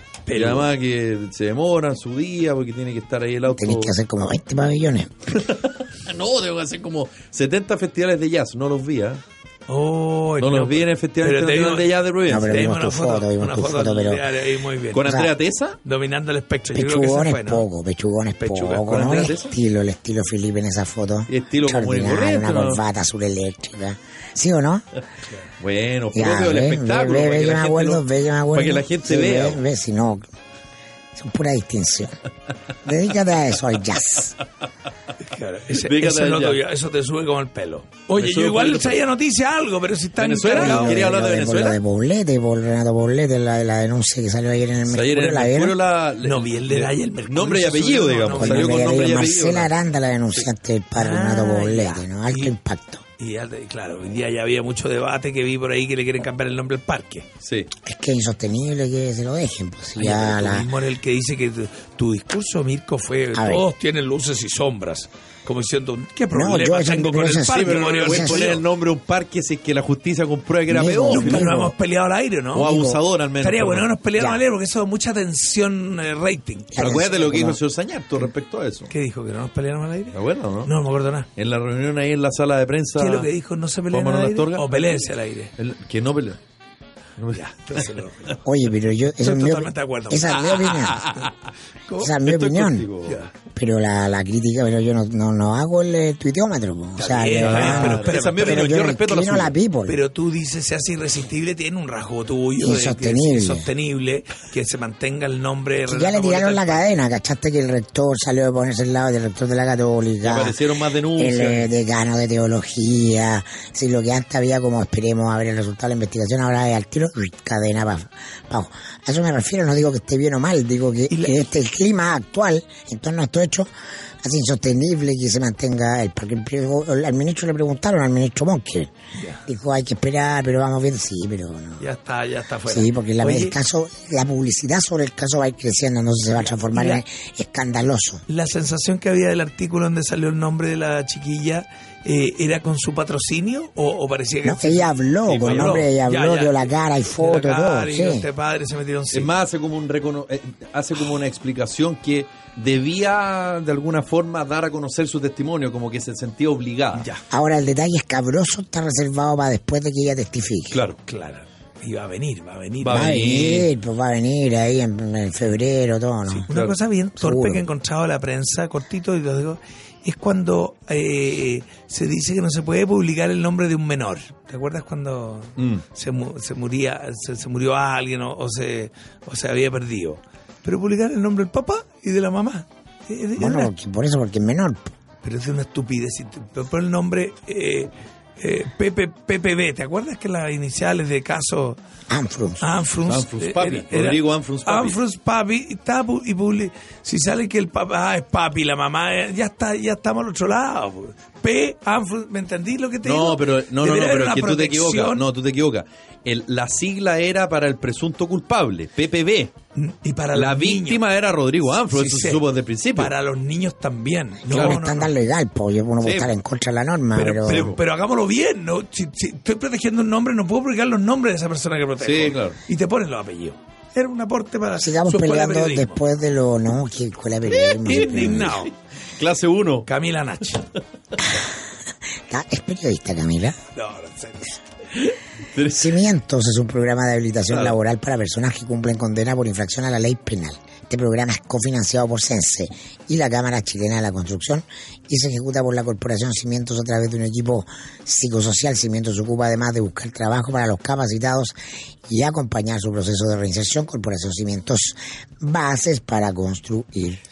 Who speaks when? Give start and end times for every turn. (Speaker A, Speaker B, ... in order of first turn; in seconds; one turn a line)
Speaker A: 0.2-0.7
Speaker B: 0.3-3.9
Speaker C: 3.5-5.3
Speaker B: 5.3-9.2
Speaker A: 9.7-15.1
Speaker B: 10.4-12.6
Speaker C: 12.3-14.2
Speaker B: 14.9-15.8
Speaker C: 15.0-15.3
Speaker A: 15.8-17.6
Speaker C: 16.7-24.8
Speaker A: 18.4-19.1
Speaker B: 18.8-19.6
Speaker B: 21.3-22.8
Speaker B: 25.6-29.6
Speaker C: 26.1-30.2
Speaker C: 31.1-32.2
Speaker C: 32.8-34.3
Speaker A: 35.2-41.1
Speaker B: 35.7-36.6
Speaker B: 38.2-39.0
Speaker B: 40.2-41.8
Speaker C: 40.5-45.8
Speaker B: 44.9-49.7
Speaker A: 46.2-48.8
Speaker C: 48.4-53.0
Speaker A: 50.9-52.5
Speaker A: 53.2-57.3
Speaker B: 57.4-57.7
Speaker C: 57.8-60.7
Speaker A: 60.0-68.6
Speaker C: 63.3-63.6
Speaker C: 66.3-68.5
Speaker B: 67.5-71.5
Speaker C: 70.7-71.7
Speaker A: 71.1-72.9
Speaker B: 72.5-73.9
Speaker C: 72.7-73.0
Speaker A: 73.4-77.1
Speaker C: 76.7-77.6
Speaker B: 76.8-78.9
Speaker A: 78.9-81.3
Speaker B: 80.1-80.7
Speaker B: 81.3-83.3
Speaker A: 83.0-85.5
Speaker B: 83.9-86.4
Speaker B: 87.2-87.9
Speaker A: 87.3-88.4
Speaker C: 88.4-91.1
Speaker A: 89.2-91.3
Speaker B: 90.5-91.3
Speaker A: 91.9-92.2
Speaker C: 92.0-92.9
Speaker B: 92.2-93.2
Speaker A: 93.0-93.3
Speaker C: 93.5-100.0
Speaker A: 97.0-98.8
Speaker B: 97.4-99.5
Speaker A: 99.9-106.8
Speaker C: 102.6-103.7
Speaker C: 105.9-110.6
Speaker B: 110.2-111.7
Speaker C: 111.2-123.7
Speaker A: 121.1-121.4
Speaker C: 124.2-128.9
Speaker A: 129.2-129.4
Speaker C: 129.4-131.8
Speaker A: 131.8-133.6
Speaker C: 132.7-138.2
Speaker A: 136.7-137.0
Speaker A: 138.3-149.3
Speaker C: 144.4-148.2
Speaker B: 145.3-145.9
Speaker B: 149.1-157.1
Speaker A: 156.9-157.2
Speaker C: 157.3-160.8
Speaker B: 160.7-161.0
Speaker A: 161.1-163.2
Speaker B: 162.8-163.7
Speaker C: 162.9-166.5
Speaker A: 166.3-183.7
Speaker B: 166.5-166.8
Speaker C: 167.2-167.6
Speaker B: 175.6-175.8
Speaker C: 183.4-184.9
Speaker A: 185.2-191.8
Speaker C: 192.1-192.6
Speaker A: 192.6-205.2
Speaker B: 193.1-195.0
Speaker B: 203.0-209.5
Speaker A: 209.7-211.0
Speaker B: 210.3-213.1
Speaker A: 211.9-212.4
Speaker A: 212.9-215.1
Speaker B: 214.5-214.8
Speaker C: 214.5-217.7
Speaker B: 216.0-216.3
Speaker A: 217.1-226.0
Speaker B: 217.3-217.8
Speaker B: 222.0-222.6
Speaker C: 224.8-228.6
Speaker B: 227.5-229.9
Speaker A: 227.8-228.7
Speaker A: 229.8-230.7
Speaker C: 232.3-233.6
Speaker A: 233.7-234.6
Speaker B: 234.9-236.0
Speaker C: 235.7-251.5
Speaker B: 237.5-237.8
Speaker C: 252.1-257.2